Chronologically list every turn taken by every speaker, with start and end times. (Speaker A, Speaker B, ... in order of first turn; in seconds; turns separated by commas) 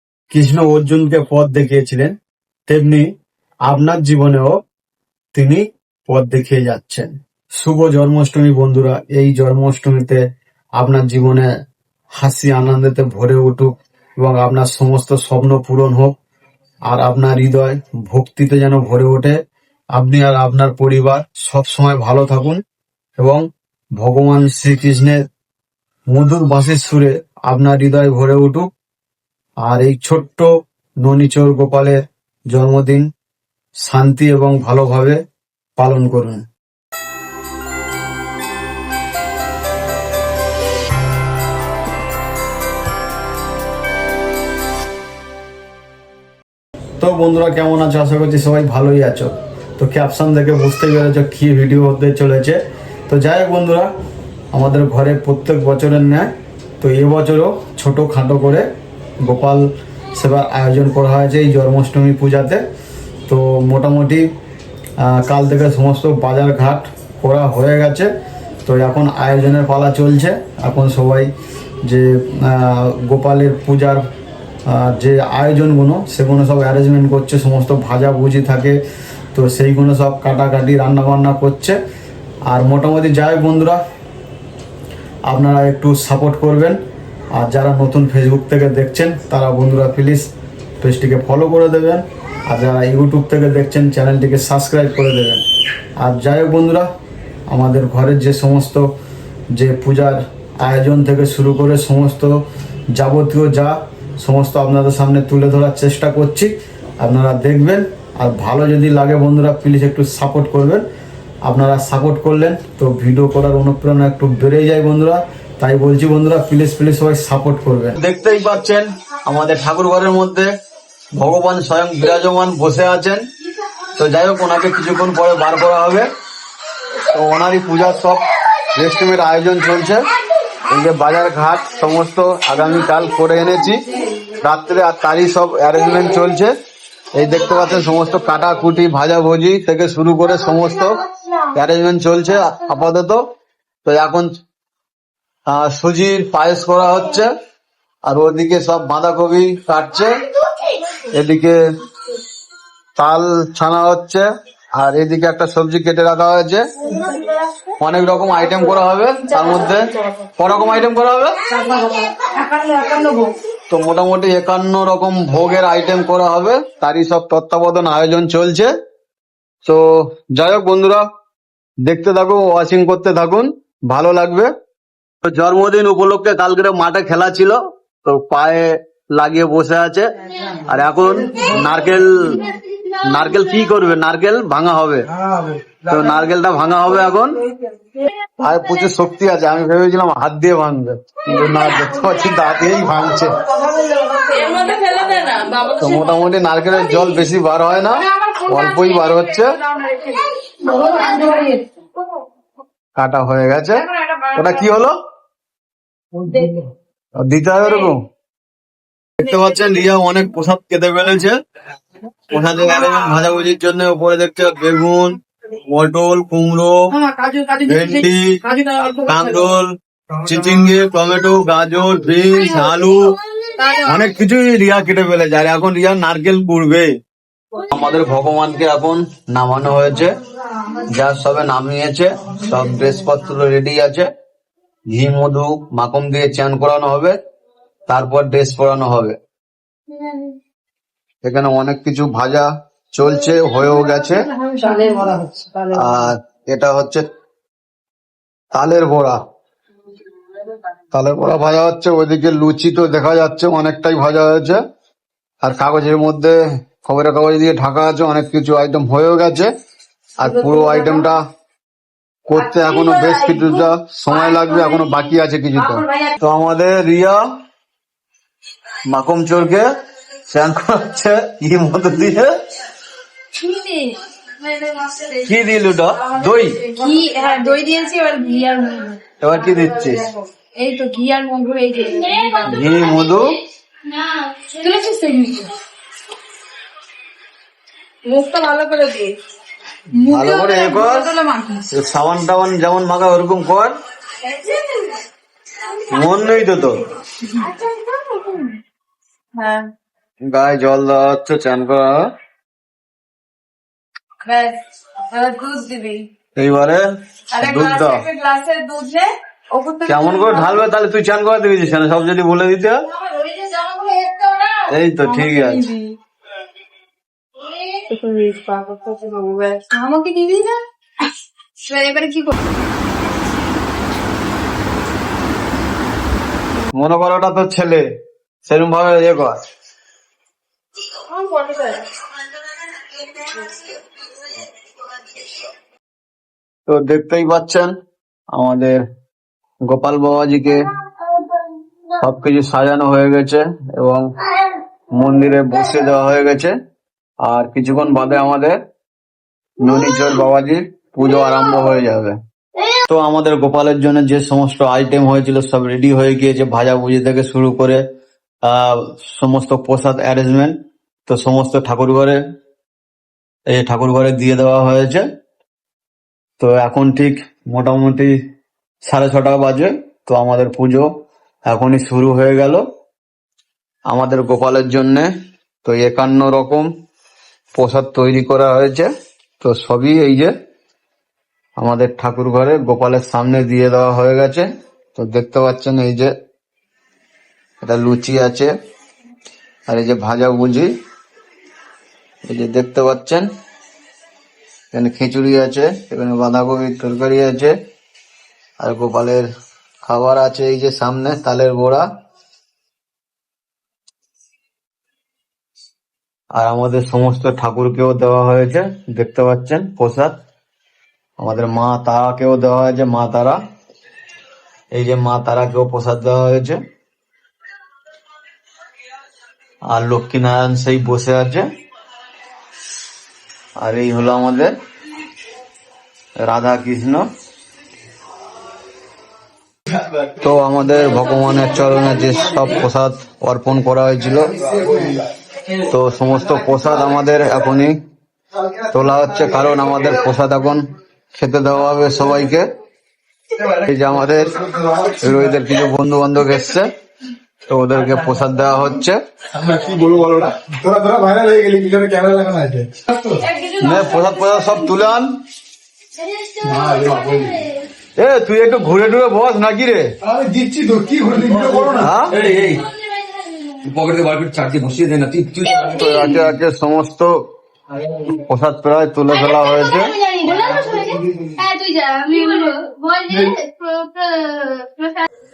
Speaker A: 0.3-2.2, Speaker A: 2.7-3.1, Speaker A: 3.7-4.6, Speaker A: 5.3-10.2, Speaker A: 10.8-11.5, Speaker A: 12.2-16.1, Speaker A: 16.9-19.4, Speaker A: 19.9-22.6, Speaker A: 23.2-23.4, Speaker A: 24.0-25.2, Speaker A: 26.1-28.7, Speaker A: 29.6-30.5, Speaker A: 31.0-32.0, Speaker A: 32.5-33.1, Speaker A: 33.9-35.2, Speaker A: 35.8-36.5, Speaker A: 47.0-53.9, Speaker A: 54.5-58.7, Speaker A: 59.2-62.6, Speaker A: 63.3-64.3, Speaker A: 65.0-68.1, Speaker A: 68.7-71.3, Speaker A: 71.8-74.0, Speaker A: 74.7-78.8, Speaker A: 79.3-81.8, Speaker A: 82.5-83.8, Speaker A: 85.3-86.8, Speaker A: 87.3-90.3, Speaker A: 90.8-95.4, Speaker A: 96.0-96.9, Speaker A: 97.5-98.9, Speaker A: 99.5-102.4, Speaker A: 102.9-110.8, Speaker A: 111.5-120.5, Speaker A: 121.2-123.2, Speaker A: 123.9-126.1, Speaker A: 127.0-130.1, Speaker A: 130.7-136.5, Speaker B: 133.9-134.2, Speaker A: 137.1-143.2, Speaker A: 143.8-144.4, Speaker A: 145.5-147.3, Speaker A: 148.1-150.2, Speaker A: 151.1-151.6, Speaker A: 153.0-156.7, Speaker B: 156.8-157.5, Speaker A: 157.8-161.4, Speaker B: 159.3-160.3, Speaker B: 161.5-163.4, Speaker A: 163.7-168.7, Speaker A: 169.7-171.1, Speaker A: 171.8-174.5, Speaker A: 175.2-185.1, Speaker A: 185.8-187.4, Speaker A: 188.4-193.4, Speaker B: 191.3-191.7, Speaker B: 193.1-196.2, Speaker A: 195.8-199.6, Speaker B: 197.9-201.7, Speaker A: 203.0-205.0, Speaker B: 204.0-204.7, Speaker B: 206.2-206.7, Speaker A: 207.2-208.0, Speaker A: 209.2-211.4, Speaker A: 212.3-216.9, Speaker B: 216.9-219.5, Speaker A: 217.7-218.4, Speaker A: 219.1-223.2, Speaker B: 223.6-224.1, Speaker A: 223.8-226.9, Speaker A: 227.7-230.2, Speaker A: 230.8-234.1, Speaker A: 234.9-237.2, Speaker A: 237.9-239.2, Speaker B: 239.9-240.3, Speaker A: 241.2-244.3, Speaker B: 243.7-246.1, Speaker A: 245.7-247.1, Speaker A: 248.6-249.2, Speaker A: 250.9-254.6, Speaker A: 255.4-259.5, Speaker A: 260.2-261.2, Speaker B: 260.2-261.1, Speaker A: 262.3-267.2, Speaker B: 262.3-266.1, Speaker A: 268.9-269.7, Speaker A: 270.3-272.4, Speaker B: 273.4-275.3, Speaker A: 275.2-276.6, Speaker B: 276.2-282.7, Speaker A: 279.2-280.1, Speaker A: 282.4-283.4, Speaker B: 284.5-285.6, Speaker B: 288.1-289.1, Speaker B: 290.0-291.7, Speaker A: 290.0-291.1, Speaker A: 291.7-293.7, Speaker B: 294.2-295.1, Speaker A: 295.9-296.9, Speaker B: 297.3-298.6, Speaker B: 299.4-299.7, Speaker A: 300.3-302.1, Speaker B: 304.2-304.6, Speaker B: 305.1-306.1, Speaker A: 306.4-306.9, Speaker B: 307.4-310.6, Speaker A: 307.4-308.1, Speaker A: 309.9-312.8, Speaker B: 312.9-315.9, Speaker A: 314.7-315.7, Speaker B: 317.9-320.6, Speaker B: 321.6-322.4, Speaker A: 326.7-327.9, Speaker A: 328.4-329.4, Speaker B: 330.9-331.9, Speaker A: 336.7-337.7, Speaker A: 338.3-338.8, Speaker A: 339.6-340.7, Speaker A: 342.0-344.1, Speaker A: 344.9-346.6, Speaker A: 347.2-348.6, Speaker A: 349.6-352.2, Speaker A: 352.9-357.8, Speaker A: 358.4-362.2, Speaker A: 363.5-365.1, Speaker A: 366.4-368.2, Speaker A: 368.9-370.9, Speaker A: 371.5-372.6, Speaker A: 373.9-375.1, Speaker A: 375.6-376.7, Speaker A: 377.6-380.3, Speaker A: 381.6-386.1, Speaker A: 387.6-388.5, Speaker A: 389.7-390.7, Speaker A: 392.3-393.3, Speaker A: 394.7-397.6, Speaker A: 398.6-399.3, Speaker A: 399.9-401.9, Speaker A: 406.3-410.1, Speaker A: 411.2-413.4, Speaker A: 414.7-416.6, Speaker A: 419.7-421.5, Speaker A: 423.6-424.5, Speaker A: 426.2-427.1, Speaker A: 430.1-434.4, Speaker C: 434.5-435.0, Speaker A: 435.6-437.8, Speaker A: 438.7-442.5, Speaker A: 443.4-446.7, Speaker C: 444.4-445.2, Speaker A: 447.5-449.0, Speaker C: 449.4-453.2, Speaker B: 453.2-454.5, Speaker A: 453.6-455.2, Speaker D: 456.0-457.6, Speaker C: 456.4-457.4, Speaker A: 458.0-459.9, Speaker C: 460.0-462.0, Speaker E: 461.3-462.7, Speaker A: 461.7-462.2, Speaker D: 463.3-463.6, Speaker E: 463.6-466.3, Speaker A: 465.6-467.2, Speaker D: 465.6-466.1, Speaker A: 468.1-470.0, Speaker D: 469.3-475.1, Speaker B: 472.1-472.6